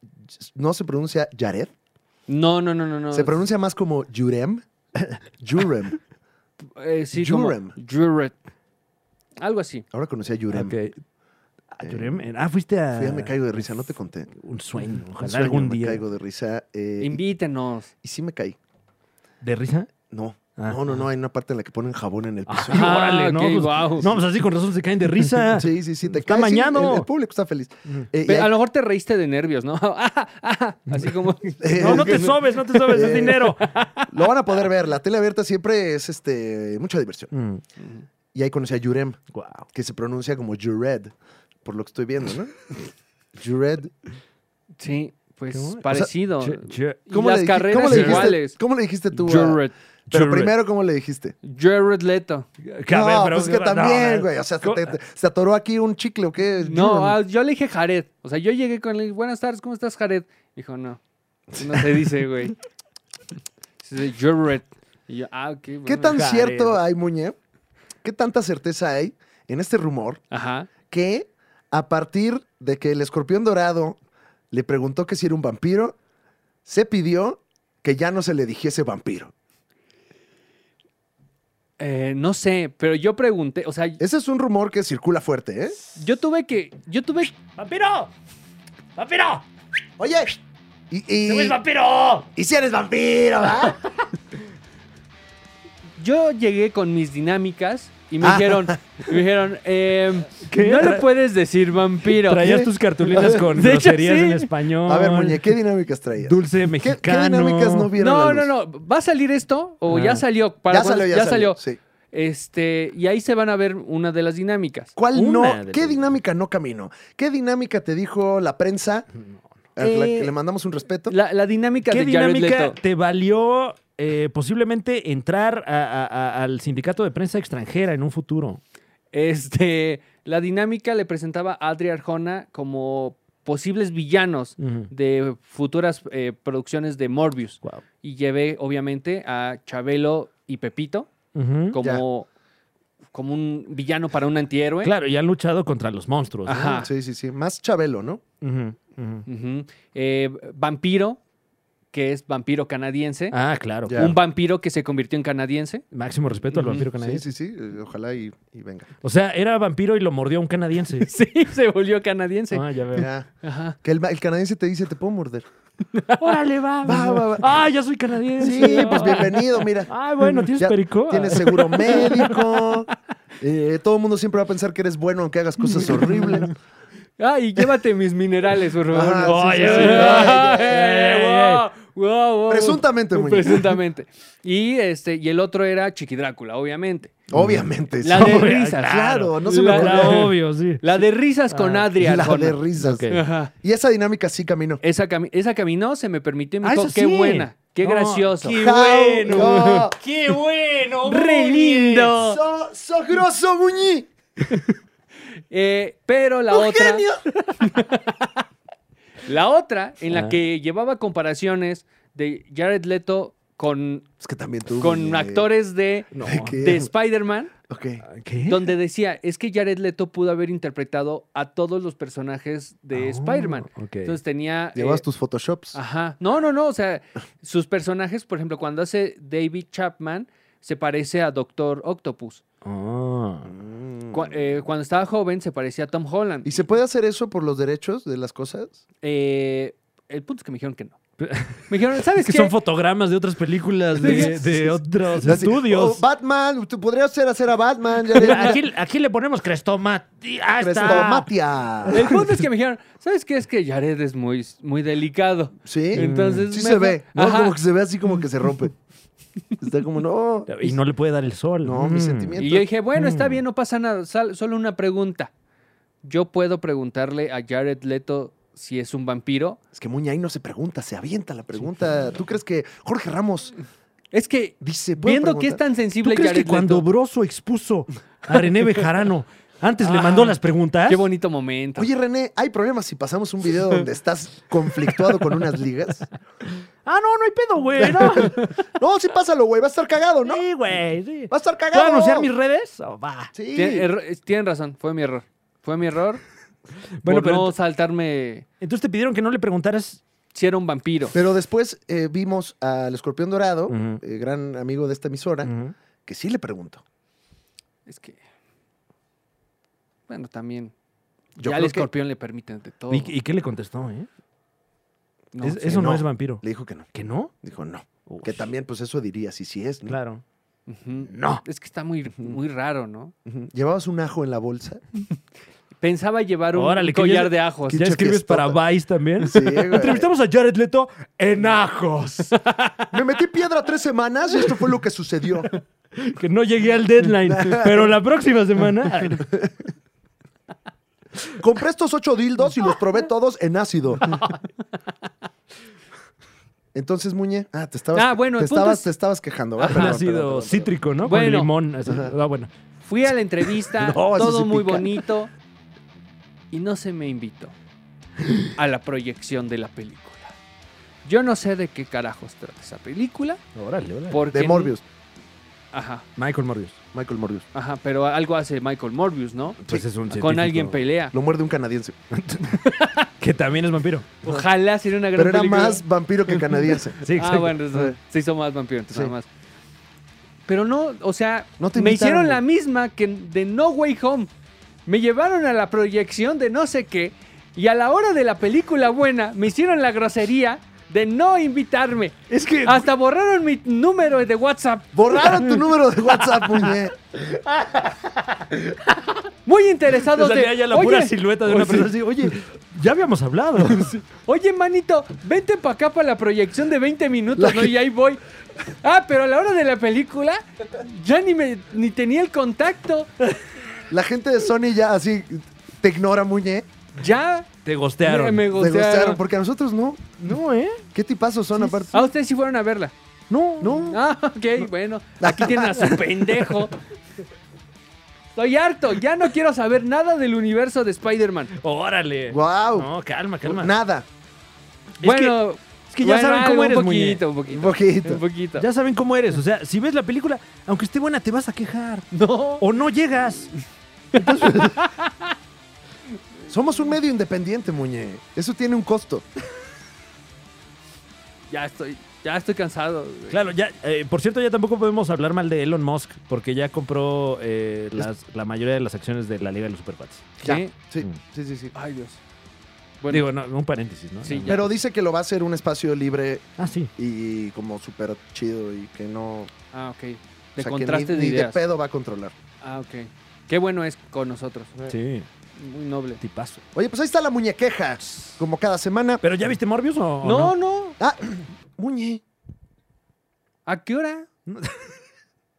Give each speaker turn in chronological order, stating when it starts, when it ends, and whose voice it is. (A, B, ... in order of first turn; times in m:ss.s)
0:00.3-0:01.7 A
0:02.3-0:03.4 B
0:03.1-0:06.0 A
0:06.8-0:08.3 B
0:07.1-0:07.7 A
0:09.4-0:09.8 B
0:09.9-0:10.7 A
0:10.5-0:10.9 C
0:11.7-0:13.4 C
0:11.8-0:12.1 A
0:13.0-0:14.3 A
0:14.3-0:16.0 C
0:15.2-0:17.2 A
0:17.0-0:17.9 B
0:18.0-0:18.6 A
0:19.4-0:19.9 C
0:20.1-0:23.0 A
0:20.6-0:21.0 C
0:22.5-0:27.1 C
0:22.7-0:24.1 B
0:25.5-0:28.5 A
0:28.3-0:34.1 B
0:31.6-0:33.5 A
0:31.8-0:33.9 C
0:34.1-0:37.3 A
0:37.3-0:37.6 C
0:37.8-0:38.0 B
0:38.3-0:39.2 A
0:39.3-0:39.6 C
0:39.7-0:41.1 A
0:41.6-0:42.6 A
0:43.4-0:43.9 A
0:44.8-0:48.6 B
0:45.5-0:47.0 C
0:47.1-0:51.3 A
0:47.8-0:48.3 C
0:49.2-0:49.7 B
0:50.1-0:50.6 C
0:51.4-0:52.5 B
0:52.6-0:55.0 C
0:52.9-0:57.2 A
0:56.6-1:01.0 B
1:01.5-1:01.9 A
1:01.6-1:02.6 B
1:03.8-1:06.4 B
1:05.9-1:07.4 A
1:06.1-1:06.7 C
1:08.0-1:10.2 A
1:10.3-1:10.7 B
1:10.9-1:14.0 A
1:14.5-1:16.0 A
1:16.6-1:19.3 A
1:21.8-1:24.0 B
1:24.0-1:25.8 A
1:26.0-1:27.4 B
1:27.6-1:28.1 C
1:29.0-1:29.4 C
1:30.0-1:30.4 A
1:30.9-1:31.6 A
1:31.2-1:32.3 C
1:32.3-1:33.8 A
1:36.0-1:42.5 B
1:38.2-1:38.8 A
1:40.5-1:41.0 C
1:42.1-1:45.5 C
1:42.4-1:43.4 A
1:43.2-1:44.5 B
1:44.9-1:48.5 A
1:46.2-1:47.9 C
1:48.0-1:51.6 B
1:49.9-1:50.2 C
1:50.7-1:51.8 A
1:52.1-1:54.9 B
1:55.0-1:59.1 A
1:55.1-1:56.2 C
1:59.8-2:01.1 A
1:59.8-2:00.3 B
2:01.1-2:02.8 B
2:01.9-2:08.6 C
2:09.1-2:21.1 B
2:14.6-2:14.9 C
2:21.3-2:21.8 C
2:21.7-2:22.3 B
2:23.1-2:24.9 B
2:24.8-2:26.8 C
2:26.5-2:26.9 B
2:26.6-2:28.2 A
2:28.4-2:29.2 C
2:29.3-2:31.2 B
2:31.9-2:33.4 B
2:33.3-2:34.2 C
2:33.9-2:34.2 A
2:34.0-2:35.8 B
2:35.9-2:37.3 C
2:36.5-2:36.9 B
2:36.9-2:38.9 A
2:39.0-2:41.1 C
2:41.0-2:42.6 B
2:42.5-2:43.1 C
2:42.9-2:43.3 A
2:43.4-2:43.8 B
2:43.8-2:45.4 A
2:45.9-2:46.3 B
2:46.2-2:52.4 C
2:46.8-2:47.6 A
2:48.4-2:49.9 A
2:48.4-2:49.3 B
2:50.5-2:52.9 A
2:51.4-2:52.4 B
2:53.4-2:56.5 A
2:55.6-2:56.5 B
2:57.2-3:07.2 B
2:58.9-3:00.8 A
2:59.2-3:01.6 C
3:02.5-3:03.7 A
3:07.3-3:10.3 A
3:07.3-3:11.0 C
3:08.0-3:12.6 B
3:11.6-3:11.8 C
3:11.9-3:14.8 A
3:12.8-3:13.2 C
3:13.1-3:13.5 B
3:14.8-3:19.9 B
3:16.6-3:22.2 C
3:18.4-3:20.0 A
3:21.0-3:22.4 B
3:22.1-3:24.1 A
3:25.5-3:28.4 B
3:26.5-3:27.2 A
3:29.2-3:34.1 B
3:30.1-3:30.4 C
3:34.2-3:35.5 A
3:34.8-3:37.5 B
3:36.1-3:36.6 C
3:36.2-3:36.9 A
3:37.7-3:38.0 A
3:38.1-3:38.7 C
3:38.5-3:45.0 B
3:42.9-3:44.2 C
3:44.7-3:45.8 A
3:45.7-3:52.4 B
3:52.6-3:53.5 C
3:53.4-3:54.6 A
3:54.1-3:56.6 B
3:56.4-3:58.8 A
3:59.0-4:01.0 B
4:01.2-4:06.0 C
4:01.7-4:02.5 B
4:04.0-4:08.6 A
4:04.0-4:04.4 B
4:08.1-4:11.3 C
4:08.2-4:08.5 B
4:10.6-4:12.1 A
4:11.8-4:12.4 C
4:11.9-4:17.6 B
4:15.6-4:18.7 A
4:15.9-4:16.5 C
4:19.6-4:20.8 A
4:20.5-4:22.4 C
4:21.6-4:22.7 A
4:22.4-4:25.3 B
4:22.9-4:23.4 C
4:26.0-4:29.6 B
4:29.7-4:33.5 A
4:34.1-4:36.8 B
4:34.6-4:35.6 A
4:36.0-4:41.0 C
4:39.8-4:41.9 B
4:41.8-4:46.1 A
4:46.8-4:48.5 C
4:47.8-4:50.4 A
4:48.1-4:48.5 B
4:50.2-4:53.3 C
4:51.3-4:52.3 A
4:53.3-4:53.9 A
4:53.5-4:56.2 B
4:57.0-4:57.5 C
4:57.0-4:58.4 B
4:58.6-5:00.0 C
5:00.3-5:01.2 B
5:01.1-5:05.5 A
5:03.7-5:04.0 C
5:05.4-5:05.7 C
5:06.1-5:06.8 A
5:07.8-5:08.2 B
5:10.1-5:10.7 B
5:11.4-5:11.9 A
5:11.4-5:13.1 B
5:12.9-5:14.1 C
5:15.3-5:15.6 B
5:15.4-5:17.3 C
5:15.6-5:16.9 A
5:17.4-5:20.0 A
5:18.1-5:18.5 C
5:19.8-5:20.2 C
5:20.7-5:23.1 B
5:21.1-5:21.4 C
5:23.3-5:24.8 A
5:25.8-5:27.9 B
5:26.5-5:32.5 C
5:27.7-5:28.6 A
5:29.2-5:30.1 A
5:32.9-5:35.5 A
5:35.9-5:39.3 C
5:37.3-5:37.9 A
5:39.2-5:39.6 A
5:41.4-5:44.2 A
5:46.7-5:50.7 A
5:47.9-5:48.9 B
5:49.6-5:50.0 B
5:49.7-5:52.5 C
5:51.0-5:51.5 B
5:51.8-5:52.1 A
5:52.8-5:55.3 B
5:53.7-5:55.0 A
5:56.5-5:57.5 B
5:58.6-6:00.4 B
6:01.0-6:03.4 B
6:03.6-6:04.2 C
6:04.1-6:04.7 B
6:04.3-6:04.8 A
6:05.7-6:06.1 B
6:06.2-6:06.8 C
6:06.9-6:07.4 A
6:07.5-6:11.1 B
6:09.7-6:10.8 C
6:11.1-6:12.0 A
6:12.1-6:14.1 C
6:12.6-6:13.1 B
6:14.2-6:16.4 B
6:15.1-6:17.0 A
6:17.0-6:17.6 C
6:17.1-6:19.3 B
6:20.5-6:24.3 B
6:21.6-6:22.4 A
6:24.8-6:35.6 B
6:32.3-6:32.9 C
6:34.9-6:36.9 A
6:37.3-6:38.7 C
6:39.4-6:41.9 B
6:40.0-6:44.0 C
6:43.7-6:48.2 B
6:47.4-6:47.7 A
6:48.8-6:53.1 B
6:53.9-6:56.7 A
6:57.0-6:57.5 B
6:57.6-6:58.4 C
6:58.0-6:59.2 B
6:58.5-7:00.2 A
7:00.2-7:00.8 C
7:00.9-7:02.1 A
7:01.6-7:01.9 C
7:01.9-7:02.9 B
7:03.3-7:03.9 C
7:03.6-7:04.0 A
7:03.9-7:06.8 B
7:05.2-7:06.0 A
7:08.4-7:11.5 B
7:11.6-7:13.7 C
7:12.3-7:12.9 A
7:13.4-7:14.1 A
7:15.0-7:15.4 C
7:15.0-7:18.6 B
7:15.9-7:17.2 C
7:17.5-7:18.2 A
7:18.6-7:22.1 C
7:22.1-7:22.6 B
7:22.6-7:23.5 C
7:24.1-7:25.3 B
7:24.2-7:24.7 A
7:26.5-7:29.3 A
7:31.5-7:33.4 B
7:33.3-7:41.2 C
7:40.4-7:40.7 B
7:40.4-7:41.7 A
7:41.7-7:42.2 B
7:43.1-7:44.7 C
7:44.2-7:44.6 B
7:44.5-7:49.5 A
7:46.6-7:46.9 C
7:49.7-7:51.6 B
7:50.6-7:52.4 A
7:52.6-7:54.7 B
7:54.8-7:55.3 C
7:55.6-7:56.2 B
7:56.2-7:56.6 C
7:56.7-7:59.2 A
7:59.2-8:00.5 C
8:00.2-8:01.0 B
8:01.0-8:02.2 A
8:03.6-8:04.3 B
8:04.5-8:04.9 C